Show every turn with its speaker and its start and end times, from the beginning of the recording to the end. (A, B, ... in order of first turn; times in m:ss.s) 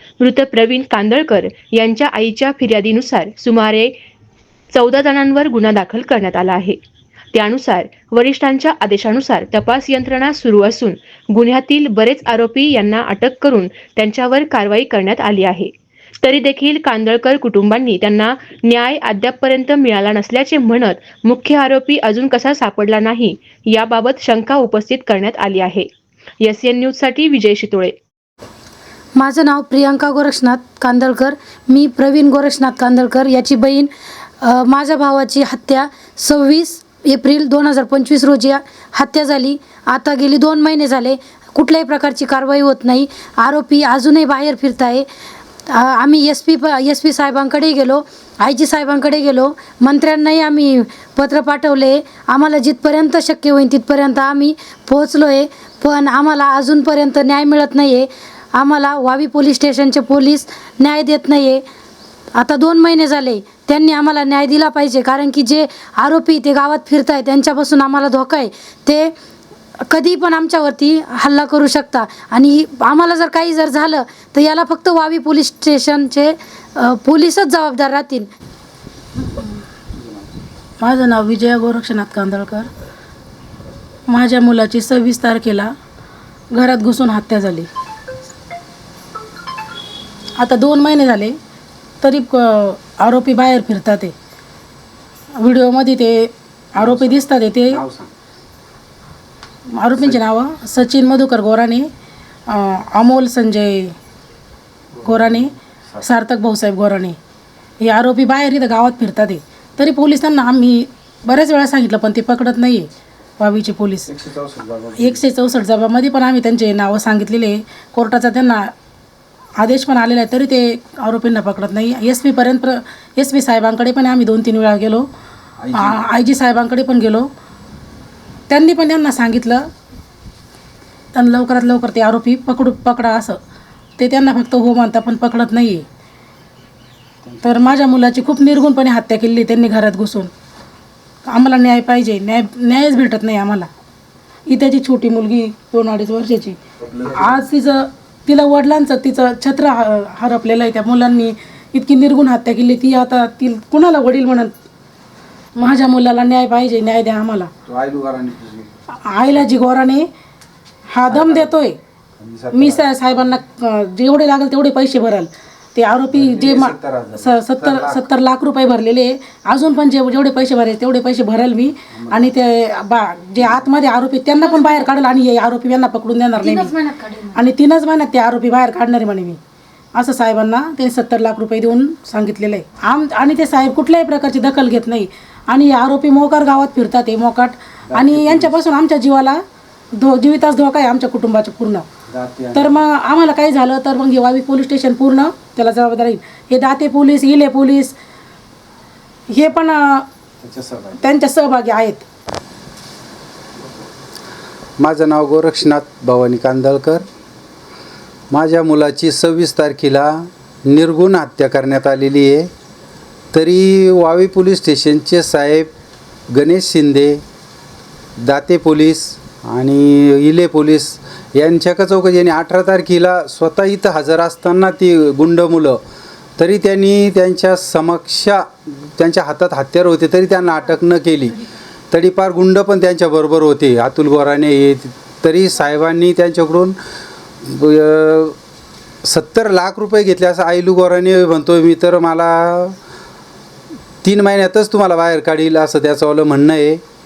0:00.2-0:03.9 A
0:04.7-0:06.8 A
0:07.3-0:15.7 A
0:16.2-0:25.9 A
0:26.4-0:27.9 A
0:29.2-0:33.9 B
0:34.4-0:45.1 B
0:45.7-1:01.6 B
1:02.4-1:09.1 B
1:09.9-1:18.3 B
1:19.2-1:19.5 C
1:20.8-1:22.7 C
1:24.1-1:25.7 C
1:26.5-1:27.7 C
1:30.4-1:31.4 C
1:32.0-1:34.1 C
1:35.4-1:37.8 C
1:36.8-1:38.1 D
1:39.8-1:41.9 C
1:42.5-1:44.0 C
1:45.0-1:46.0 D
1:45.0-1:45.5 C
1:46.0-1:47.2 C
1:47.8-1:52.9 C
1:53.4-1:54.1 C
1:54.1-1:55.2 D
1:55.0-1:58.7 C
1:59.6-2:05.0 C
2:05.6-2:06.0 D
2:05.7-2:07.3 C
2:08.5-2:09.6 C
2:11.1-2:13.4 C
2:14.0-2:15.8 C
2:17.2-2:17.8 D
2:17.4-2:20.3 C
2:21.2-2:23.7 C
2:24.5-2:26.6 C
2:26.8-2:27.4 D
2:27.2-2:34.6 C
2:35.6-2:37.5 C
2:37.7-2:38.7 D
2:39.1-2:40.1 C
2:40.9-2:41.8 C
2:41.1-2:41.6 D
2:42.2-2:42.9 D
2:42.5-2:56.7 C
2:46.1-2:48.0 D
2:51.9-2:52.3 D
2:53.4-2:53.6 D
2:54.5-2:54.8 B
2:56.4-2:57.4 B
2:57.3-2:59.4 C
3:00.0-3:09.4 C
3:07.9-3:08.6 D
3:10.0-3:11.9 C
3:12.1-3:12.8 D
3:12.5-3:18.0 C
3:19.3-3:20.1 C
3:20.4-3:21.0 D
3:21.0-3:22.0 C
3:24.8-3:27.1 D
3:28.3-3:32.5 D
3:33.3-3:35.7 D
3:36.3-3:37.2 D
3:38.2-3:45.8 D
3:46.4-3:56.8 D
3:57.4-3:58.4 D
3:59.0-4:02.8 D
4:04.0-4:06.8 D